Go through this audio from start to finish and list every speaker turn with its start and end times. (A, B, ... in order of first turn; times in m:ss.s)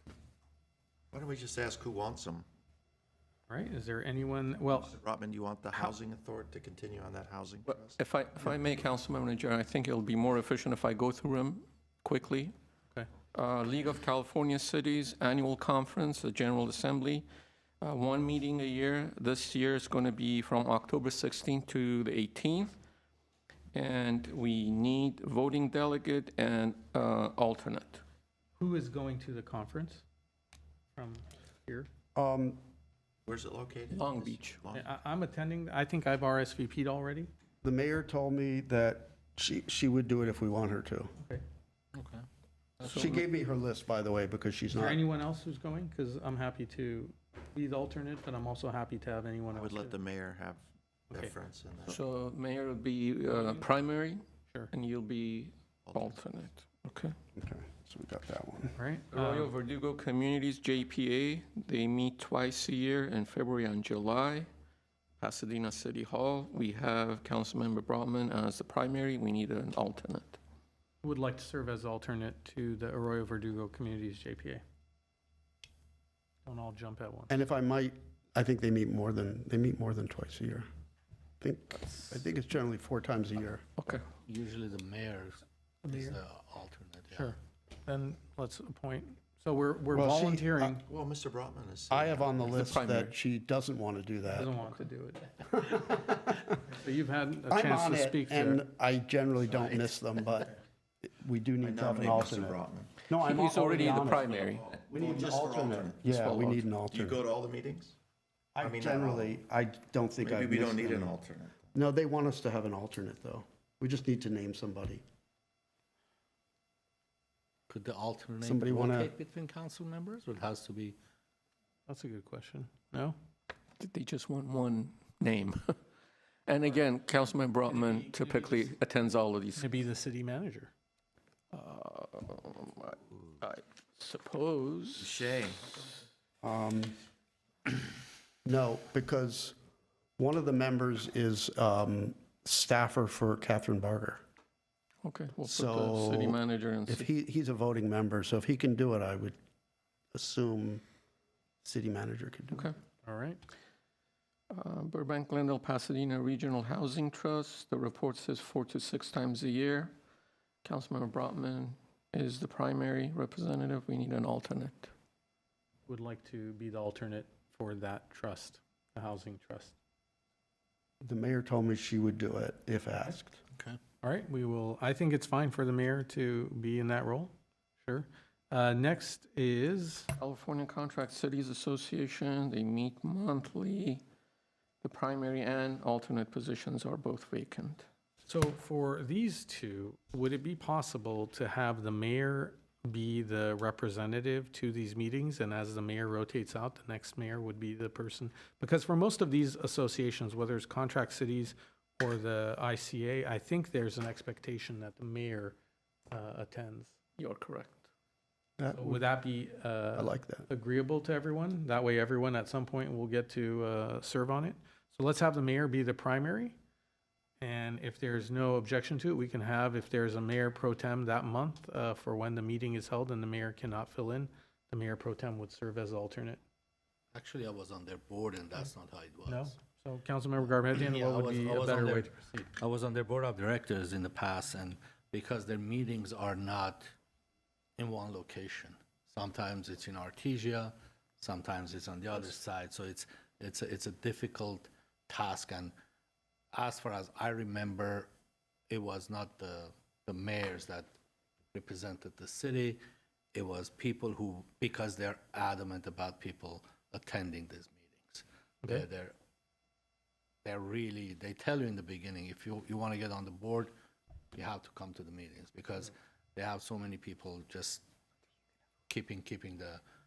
0:01.1-0:02.4 A
0:03.5-0:04.9 B
0:04.7-0:07.9 A
0:07.7-0:12.5 C
0:13.3-0:17.2 C
0:17.8-0:22.7 C
0:23.7-0:28.0 C
0:28.6-0:30.0 B
0:31.0-0:31.9 B
0:32.2-0:32.6 D
0:33.2-0:34.9 A
0:33.9-0:34.6 C
0:34.7-0:37.3 B
0:37.6-0:41.1 D
0:41.9-0:42.2 E
0:42.8-0:43.1 E
0:42.8-0:45.0 D
0:44.7-0:50.0 B
0:49.5-0:52.0 A
0:51.8-0:57.2 C
0:53.2-0:53.6 B
0:55.8-0:56.2 A
0:57.4-0:58.8 D
0:58.8-0:59.5 B
0:59.1-1:04.5 C
1:05.2-1:10.4 C
1:11.0-1:14.6 B
1:16.4-1:17.3 B
1:17.3-1:20.7 D
1:21.4-1:23.7 D
1:23.8-1:24.0 C
1:24.2-1:27.3 E
1:25.8-1:26.2 B
1:27.1-1:30.8 B
1:29.9-1:30.8 D
1:30.8-1:32.5 A
1:31.9-1:34.5 D
1:32.5-1:33.1 C
1:34.3-1:35.5 B
1:35.5-1:36.4 D
1:36.6-1:38.6 B
1:37.5-1:40.5 D
1:39.5-1:39.9 A
1:41.0-1:44.3 D
1:41.6-1:43.0 A
1:43.2-1:44.6 C
1:43.7-1:46.3 A
1:44.9-1:47.2 D
1:46.1-1:46.7 C
1:46.9-1:47.9 A
1:48.6-1:51.2 D
1:48.6-1:49.4 A
1:50.2-1:51.7 A
1:51.7-1:55.0 D
1:57.7-2:01.0 E
1:58.4-1:59.1 D
2:01.9-2:03.1 B
2:03.8-2:05.7 C
2:06.5-2:09.7 C
2:09.6-2:10.7 B
2:11.5-2:15.1 C
2:15.0-2:15.6 A
2:16.4-2:17.0 D
2:18.4-2:19.5 D
2:20.2-2:24.2 D
2:25.0-2:27.1 C
2:25.5-2:29.4 D
2:30.1-2:30.8 D
2:31.6-2:32.7 D
2:33.0-2:33.4 B
2:34.5-2:39.9 C
2:40.6-2:44.9 C
2:45.9-2:49.7 B
2:51.0-2:53.4 D
2:54.0-2:57.3 B
2:57.8-3:00.1 B
3:00.2-3:04.0 C
3:04.8-3:07.8 C
3:08.2-3:25.5 B
3:26.1-3:27.0 B
3:27.2-3:27.8 C
3:28.6-3:29.0 D
3:28.7-3:36.5 B
3:30.0-3:30.5 D
3:37.4-3:46.4 B
3:47.1-3:49.5 E
3:49.2-3:52.3 B
3:50.7-3:56.9 E
3:57.8-4:05.7 E
4:06.5-4:08.1 E
4:08.7-4:10.9 E
4:11.5-4:12.8 E
4:13.3-4:19.1 E
4:20.4-4:23.7 E
4:24.3-4:27.8 E
4:28.9-4:29.8 E